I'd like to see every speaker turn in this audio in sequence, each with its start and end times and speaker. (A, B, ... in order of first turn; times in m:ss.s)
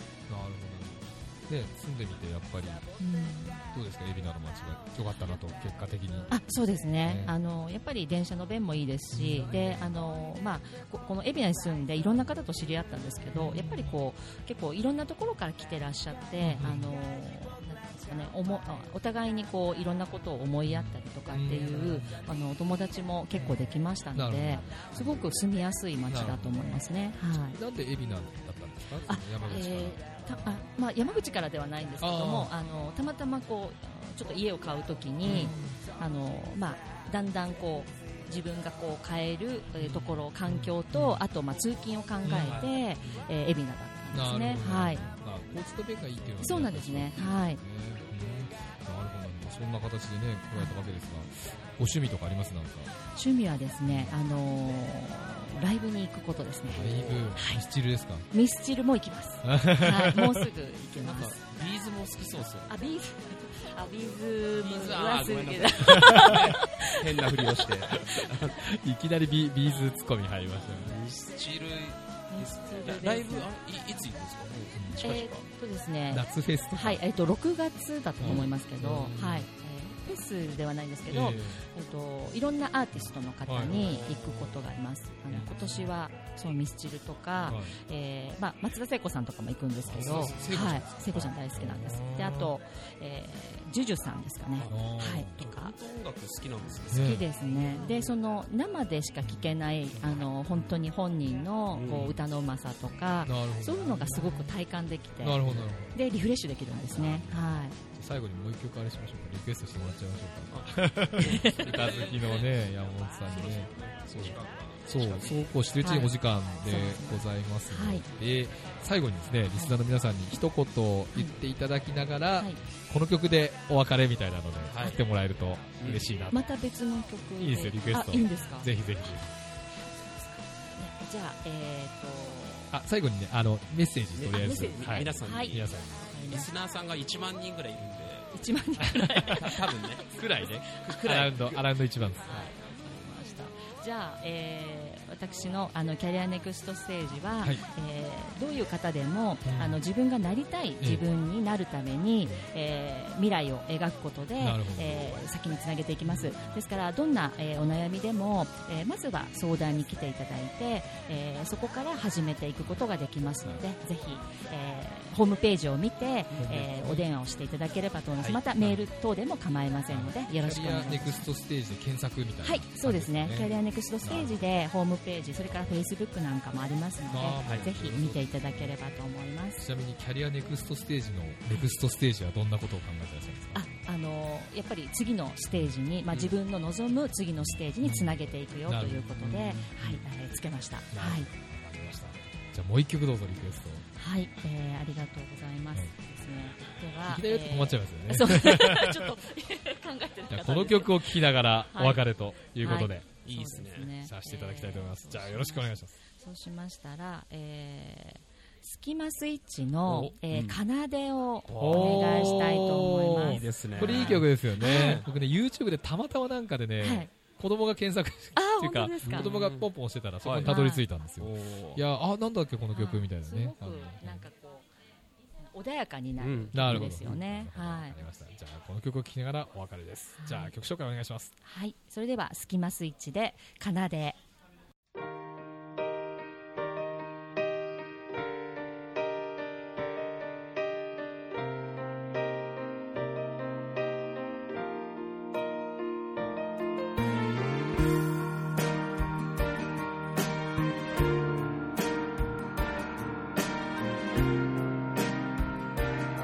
0:00.3-0:02.9 A
0:03.0-0:03.6 B
0:03.7-0:06.3 A
0:06.3-0:27.6 B
0:07.0-0:07.4 A
0:09.1-0:10.0 A
0:13.3-0:14.0 A
0:16.4-0:16.9 A
0:20.7-0:22.2 A
0:23.3-0:25.4 A
0:26.1-0:26.7 A
0:27.3-0:30.0 A
0:29.1-0:45.1 B
0:32.0-0:32.5 A
0:35.2-0:35.8 A
0:39.8-0:41.2 A
0:42.2-0:43.2 A
0:42.4-0:42.7 C
0:44.1-0:52.9 A
0:46.4-0:47.6 B
0:53.1-0:57.6 B
0:53.8-0:54.2 A
0:56.7-0:58.3 A
0:56.7-0:57.3 C
0:58.3-1:01.4 B
0:59.4-1:00.5 A
1:01.0-1:02.7 C
1:02.7-1:07.4 B
1:04.5-1:08.6 C
1:05.9-1:06.5 A
1:08.6-1:11.0 A
1:10.7-1:15.5 C
1:12.3-1:13.5 B
1:14.7-1:15.0 A
1:15.0-1:35.8 B
1:16.1-1:17.0 A
1:18.2-1:19.5 A
1:18.2-1:18.5 C
1:21.1-1:21.6 A
1:23.5-1:24.0 A
1:23.7-1:24.6 C
1:25.3-1:25.8 A
1:27.5-1:27.8 A
1:29.9-1:30.8 C
1:29.9-1:32.5 A
1:34.6-1:34.8 C
1:34.7-1:35.4 A
1:35.4-1:38.1 C
1:36.9-1:37.3 A
1:36.9-1:47.8 B
1:41.7-1:42.2 C
1:43.2-1:44.6 A
1:45.2-1:46.0 A
1:45.4-1:45.7 C
1:46.9-1:47.4 A
1:47.9-2:06.4 A
1:50.5-1:55.5 C
1:51.2-1:51.7 B
1:55.8-1:58.0 B
2:04.6-2:05.0 C
2:05.8-2:06.1 C
2:06.3-2:08.8 B
2:07.4-2:09.3 A
2:09.7-2:12.8 B
2:12.7-2:16.1 A
2:14.2-2:18.4 C
2:14.4-2:16.5 B
2:18.3-2:19.8 B
2:18.8-2:19.5 A
2:19.3-2:21.7 C
2:20.0-2:22.4 A
2:22.2-2:22.5 C
2:22.2-2:51.3 B
2:29.4-2:29.8 A
2:30.8-2:31.0 A
2:34.4-2:35.2 A
2:46.4-2:47.1 A
2:49.9-2:54.4 A
2:52.4-2:59.6 B
2:57.1-2:58.7 A
2:57.4-2:57.7 C
2:59.6-3:03.6 A
3:03.5-3:11.3 B
3:07.8-3:10.0 A
3:10.9-3:13.8 A
3:14.0-3:22.1 B
3:17.1-3:19.2 A
3:20.3-3:23.2 A
3:22.6-3:35.0 B
3:23.2-3:23.9 C
3:24.0-3:25.9 A
3:29.9-3:30.6 C
3:31.5-3:32.4 C
3:31.6-3:44.3 A
3:33.1-3:35.1 C
3:36.8-3:37.1 B
3:38.4-3:39.4 B
3:39.0-3:39.7 C
3:40.2-3:40.6 C
3:40.5-3:40.9 B
3:41.2-3:41.8 C
3:42.7-3:44.7 B
3:45.5-3:48.0 B
3:46.2-3:47.2 C
3:46.5-3:51.3 A
3:50.2-3:50.5 B
3:51.4-3:54.2 B